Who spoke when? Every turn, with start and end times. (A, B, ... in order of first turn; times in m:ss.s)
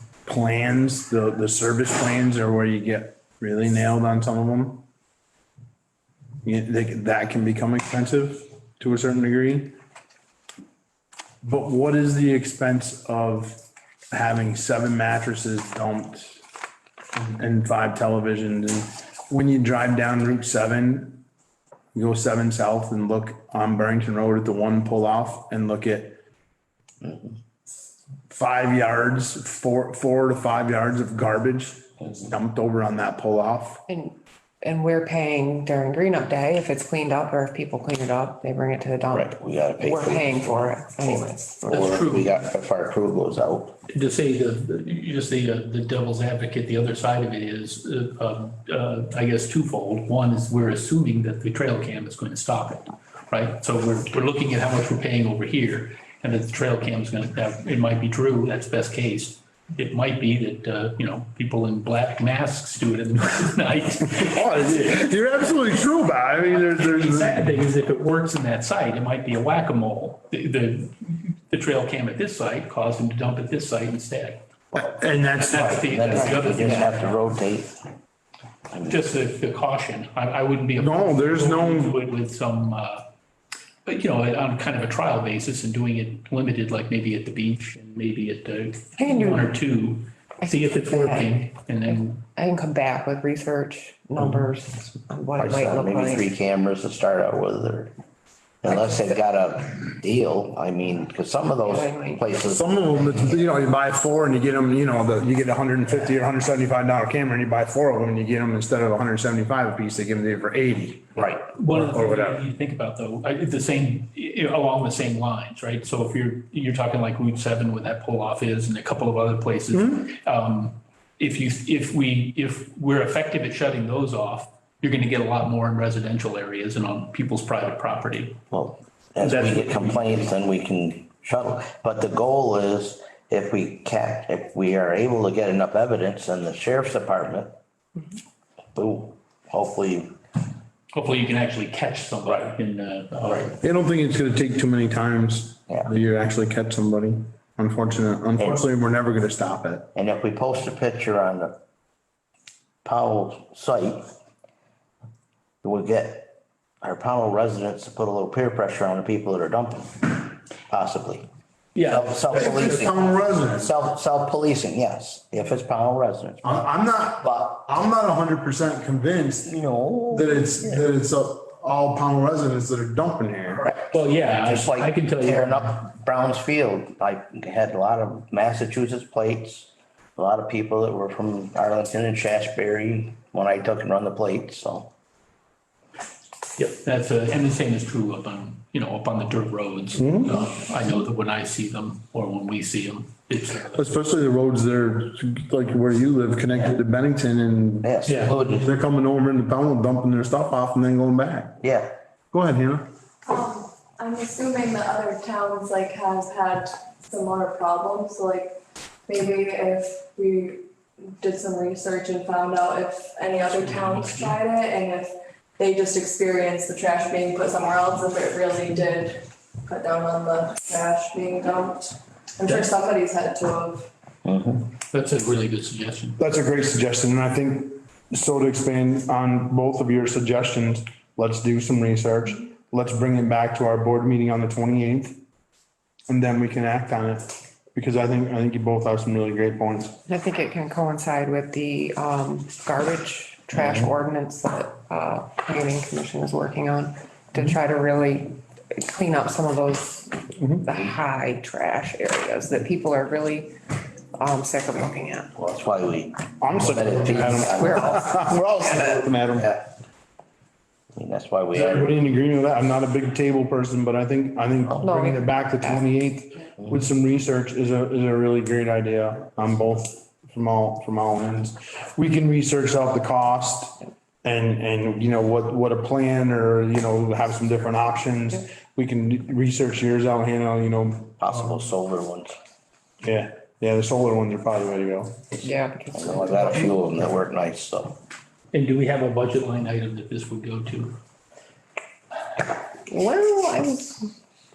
0:00.2-0:04.8 A
0:06.4-0:09.7 A
0:11.4-0:13.6 A
0:14.1-0:16.4 A
0:17.1-0:21.2 A
0:21.9-0:26.2 A
0:27.0-0:27.4 B
0:28.3-0:33.8 A
0:33.9-0:41.9 C
0:39.1-0:41.1 B
0:41.7-0:43.8 B
0:41.7-0:42.4 D
0:43.9-1:04.9 D
1:04.1-1:07.5 A
1:06.5-1:14.4 D
1:14.7-1:16.5 A
1:15.4-1:17.2 D
1:15.8-1:17.8 B
1:18.7-1:19.0 B
1:18.8-1:23.0 D
1:20.8-1:22.0 A
1:23.8-1:32.2 D
1:29.0-1:29.6 C
1:30.4-1:36.3 C
1:35.4-1:37.9 B
1:38.6-1:43.4 B
1:41.6-1:42.2 C
1:42.5-1:52.4 A
1:51.2-1:51.4 B
1:51.6-2:08.4 D
2:08.5-2:17.5 B
2:09.2-2:10.3 D
2:18.7-2:20.1 B
2:20.9-2:23.6 D
2:23.6-2:29.9 A
2:29.9-2:31.5 B
2:32.8-2:34.1 B
2:35.6-2:41.2 B
2:41.7-2:42.9 D
2:41.9-2:46.7 B
2:42.4-2:43.7 A
2:46.4-2:49.5 A
2:47.2-2:47.6 B
2:49.4-2:50.9 B
2:50.1-2:53.6 A
2:53.6-3:04.9 B
2:53.9-2:55.6 D
3:06.6-3:13.8 D
3:10.0-3:10.4 A
3:13.7-3:21.6 A
3:17.8-3:18.7 B
3:18.1-3:18.4 D
3:21.6-3:21.9 B
3:22.3-3:22.8 A
3:23.2-3:43.9 E
3:33.4-3:34.4 D
3:44.2-3:44.7 B
3:44.9-3:46.2 D
3:46.2-3:55.2 A
3:56.1-4:00.0 A
4:00.1-4:13.5 C
4:10.4-4:10.6 A
4:14.2-4:15.3 C
4:15.4-4:19.6 B
4:16.4-4:19.5 A
4:17.3-4:18.8 C
4:20.9-4:22.0 B
4:21.5-4:41.2 A
4:24.8-4:25.8 C
4:41.2-4:42.4 B
4:43.0-4:45.2 A
4:45.4-4:46.8 C
4:45.9-4:48.0 B
4:48.5-4:51.0 D
4:52.9-4:54.2 C